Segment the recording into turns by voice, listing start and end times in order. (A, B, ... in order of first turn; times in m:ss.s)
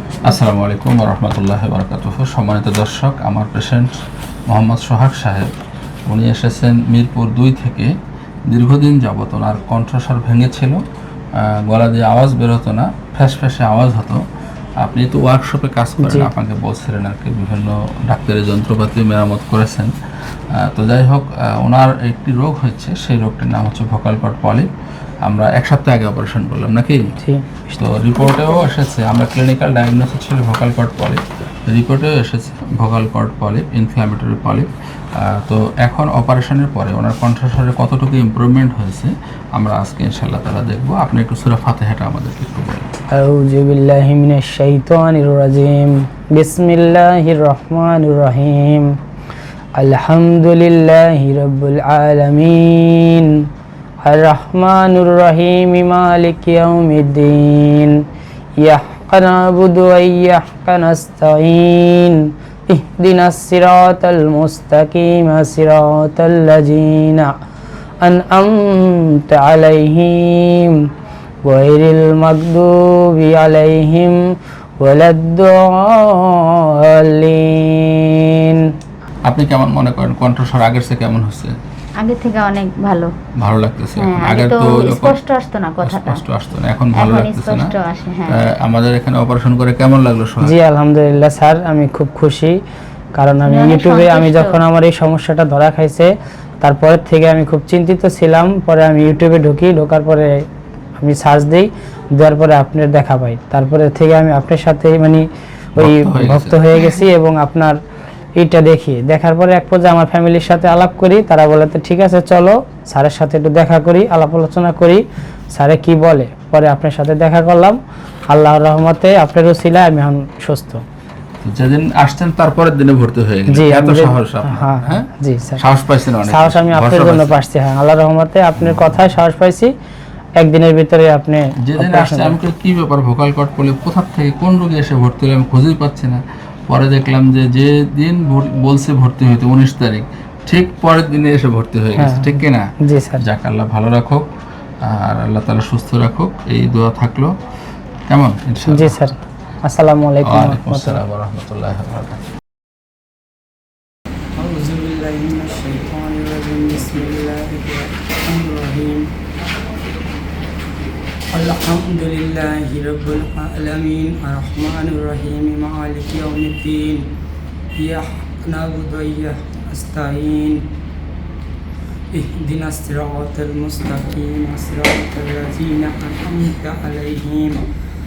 0:00.2-0:04.0 A
0:04.5-0:05.5 A
0:06.1-0:07.9 A
0:08.5-0:10.8 A
0:11.4-0:14.2 A
0:14.8-0:19.9 A
0:16.0-0:16.3 B
0:20.6-0:24.7 A
0:25.2-0:27.0 A
0:27.2-0:27.8 B
0:27.7-0:42.9 A
0:43.1-0:48.9 B
0:49.8-0:53.4 B
0:54.0-0:58.0 B
0:58.6-1:07.3 B
1:08.0-1:10.9 B
1:11.4-1:14.2 B
1:14.8-1:18.7 B
1:19.2-1:21.6 A
1:22.0-1:23.1 C
1:23.4-1:25.2 A
1:24.0-1:26.2 C
1:25.8-1:27.7 A
1:27.0-1:28.4 C
1:28.3-1:30.5 A
1:30.4-1:32.6 B
1:33.2-1:36.1 B
1:33.4-1:34.6 C
1:36.6-1:40.4 B
1:41.0-1:47.8 B
1:45.8-1:46.6 A
1:48.4-1:57.8 B
1:58.3-2:00.8 B
2:01.4-2:07.3 A
2:03.5-2:05.6 B
2:06.2-2:09.7 B
2:10.4-2:12.4 B
2:11.6-2:24.3 A
2:22.0-2:23.2 B
2:24.8-2:27.3 A
2:28.1-2:29.0 A
2:28.7-2:31.0 B
2:30.2-2:32.2 A
2:34.4-2:39.1 B
2:41.3-2:47.1 B
2:47.8-2:50.7 B
2:52.1-2:57.7 B